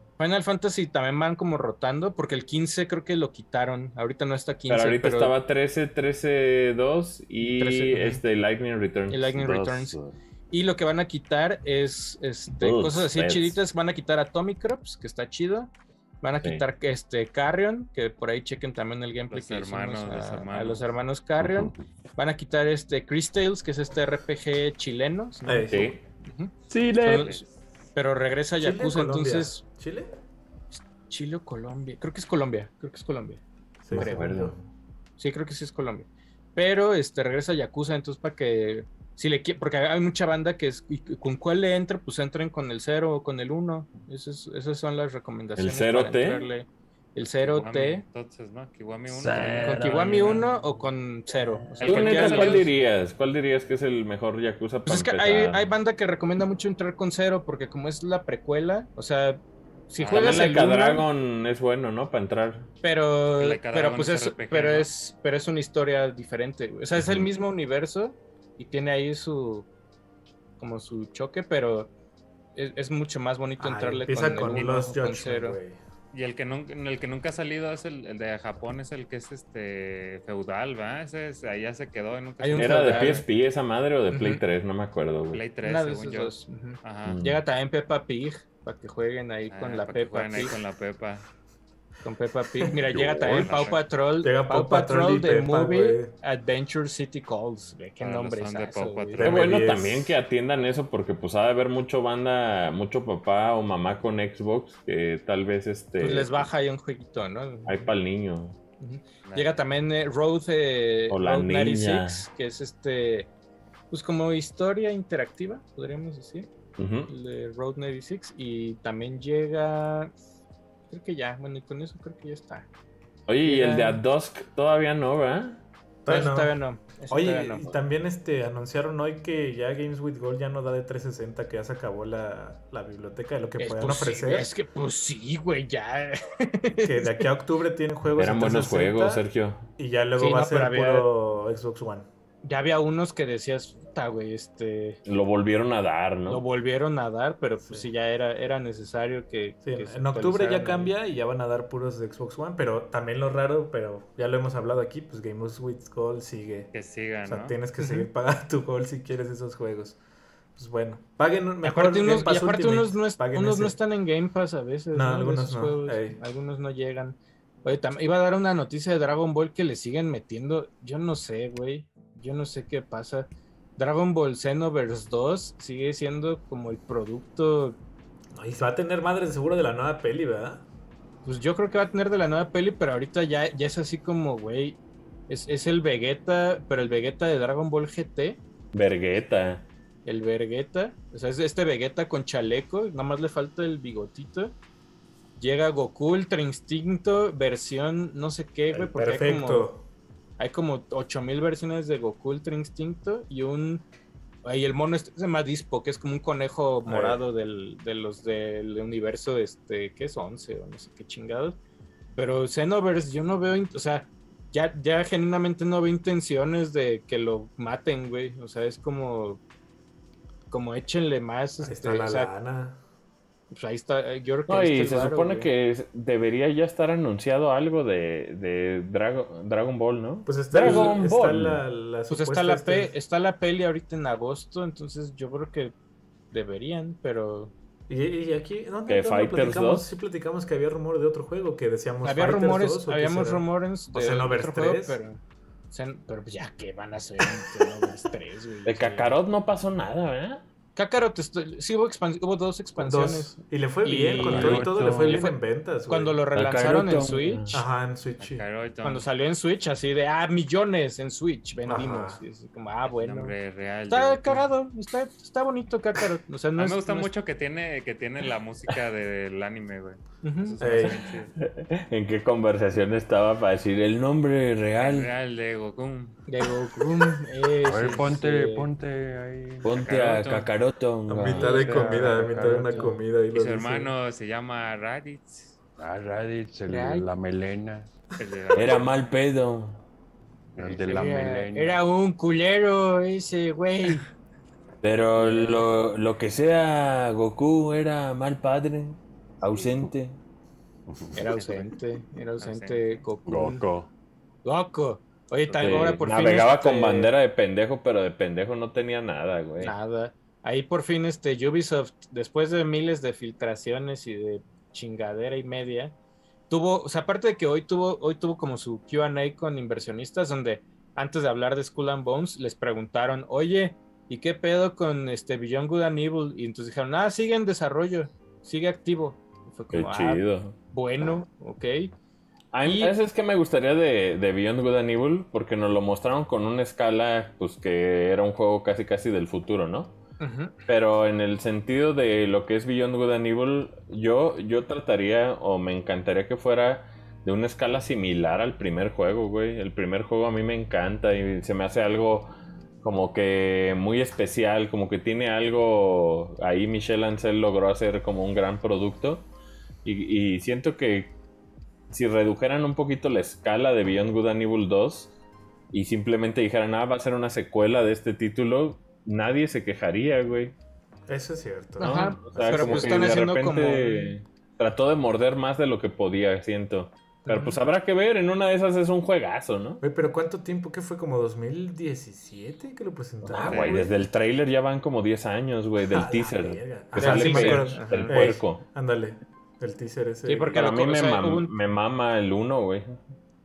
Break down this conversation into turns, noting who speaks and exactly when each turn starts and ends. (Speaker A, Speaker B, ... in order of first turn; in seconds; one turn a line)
Speaker A: 0.2-5.3
Speaker B: 4.7-10.1
Speaker A: 7.5-8.2
Speaker A: 9.1-10.0
Speaker A: 10.5-25.7
Speaker B: 12.6-13.6
Speaker C: 19.3-20.9
Speaker D: 25.4-26.0
Speaker B: 25.7-26.0
Speaker A: 26.2-27.4
Speaker B: 26.7-27.3
Speaker C: 27.1-27.5
Speaker A: 27.9-29.6
Speaker D: 28.6-30.1
Speaker A: 30.7-33.4
Speaker D: 33.9-34.6
Speaker B: 33.9-34.6
Speaker A: 33.9-34.4
Speaker A: 35.2-48.0
Speaker B: 45.6-46.5
Speaker C: 47.5-50.4
Speaker B: 49.2-50.4
Speaker E: 49.2-49.7
Speaker A: 49.5-52.7
Speaker C: 51.8-52.7
Speaker B: 51.8-55.6
Speaker A: 54.9-61.1
Speaker C: 60.0-60.5
Speaker B: 60.1-62.7
Speaker A: 62.8-69.7
Speaker C: 63.4-64.9
Speaker A: 70.6-71.9
Speaker A: 72.5-75.6
Speaker D: 73.6-75.8
Speaker C: 76.1-83.2
Speaker A: 82.4-83.2
Speaker B: 82.5-85.4
Speaker A: 84.1-84.4
Speaker C: 85.3-87.2
Speaker A: 85.6-90.6
Speaker B: 87.1-87.4
Speaker C: 89.5-91.3
Speaker A: 92.0-99.3
Speaker E: 92.9-93.6
Speaker C: 93.2-93.8
Speaker D: 94.2-96.1
Speaker C: 98.0-99.3
Speaker D: 99.2-100.2
Speaker B: 99.2-106.5
Speaker A: 106.0-107.8
Speaker B: 107.7-108.6
Speaker A: 108.8-113.3
Speaker C: 109.2-109.5
Speaker B: 111.1-112.2
Speaker A: 113.9-116.5
Speaker B: 116.8-117.1
Speaker A: 117.1-120.1
Speaker A: 120.9-122.7
Speaker B: 123.3-125.6
Speaker A: 123.4-124.0
Speaker D: 126.0-126.5
Speaker A: 126.1-127.8
Speaker D: 127.1-134.5
Speaker A: 133.6-137.3
Speaker D: 136.8-139.2
Speaker B: 138.2-139.7
Speaker D: 139.8-142.1
Speaker A: 140.2-141.1
Speaker A: 142.4-145.0
Speaker B: 145.1-146.4
Speaker A: 146.3-150.9
Speaker D: 149.6-156.7
Speaker C: 156.7-157.6
Speaker D: 157.3-160.0
Speaker A: 157.8-158.1
Speaker D: 160.6-163.8
Speaker A: 161.6-177.8
Speaker D: 164.9-166.2
Speaker D: 178.3-180.7
Speaker A: 181.2-188.4
Speaker B: 188.7-189.7
Speaker A: 190.1-194.5
Speaker A: 195.4-199.7
Speaker D: 198.7-199.9
Speaker A: 200.4-203.9
Speaker A: 204.4-211.6
Speaker D: 206.9-207.2
Speaker A: 212.2-219.4
Speaker A: 220.5-222.3
Speaker D: 221.6-222.8
Speaker A: 223.5-225.5
Speaker B: 224.5-231.6
Speaker D: 230.3-232.9
Speaker A: 230.5-231.0
Speaker A: 232.1-235.8
Speaker A: 236.3-237.5
Speaker D: 237.9-245.0
Speaker B: 238.9-239.9
Speaker A: 242.0-249.1
Speaker B: 248.7-250.4
Speaker A: 250.8-257.5
Speaker D: 252.8-256.2
Speaker B: 254.2-255.2
Speaker B: 256.4-257.6
Speaker D: 257.5-258.4
Speaker C: 258.2-259.1
Speaker A: 258.8-263.4
Speaker D: 261.7-262.2
Speaker C: 262.9-264.5
Speaker A: 263.9-267.1
Speaker C: 266.6-271.3
Speaker A: 270.2-270.6
Speaker D: 270.6-271.0
Speaker B: 270.8-275.1
Speaker C: 274.8-276.2
Speaker A: 276.3-278.7
Speaker E: 277.6-279.8
Speaker B: 279.6-282.0
Speaker C: 279.8-280.5
Speaker D: 281.1-283.9
Speaker A: 281.2-283.0
Speaker C: 283.3-285.6
Speaker E: 285.8-287.9
Speaker A: 286.7-287.1
Speaker C: 288.2-288.9
Speaker B: 288.5-289.8
Speaker C: 290.6-291.3
Speaker E: 290.6-291.8
Speaker A: 290.9-294.1
Speaker B: 294.8-300.2
Speaker A: 295.1-295.7
Speaker E: 300.9-301.4
Speaker A: 301.1-303.6
Speaker C: 301.3-301.7
Speaker C: 302.4-302.9
Speaker E: 303.3-303.9
Speaker A: 304.4-307.1
Speaker B: 305.6-309.8
Speaker A: 309.6-315.9
Speaker A: 316.5-331.9
Speaker B: 329.7-330.6
Speaker B: 332.5-340.0
Speaker A: 332.6-333.0
Speaker A: 340.2-340.6
Speaker B: 340.6-352.3
Speaker B: 352.8-359.3
Speaker B: 359.8-361.1
Speaker B: 361.9-365.1
Speaker B: 365.7-370.5
Speaker D: 371.1-373.2
Speaker A: 371.8-374.1
Speaker B: 371.8-379.8
Speaker A: 377.2-377.6
Speaker D: 379.8-384.0
Speaker B: 383.2-388.6
Speaker C: 383.4-383.8
Speaker D: 385.9-390.6
Speaker A: 386.9-388.2
Speaker A: 390.3-391.5
Speaker B: 390.5-393.0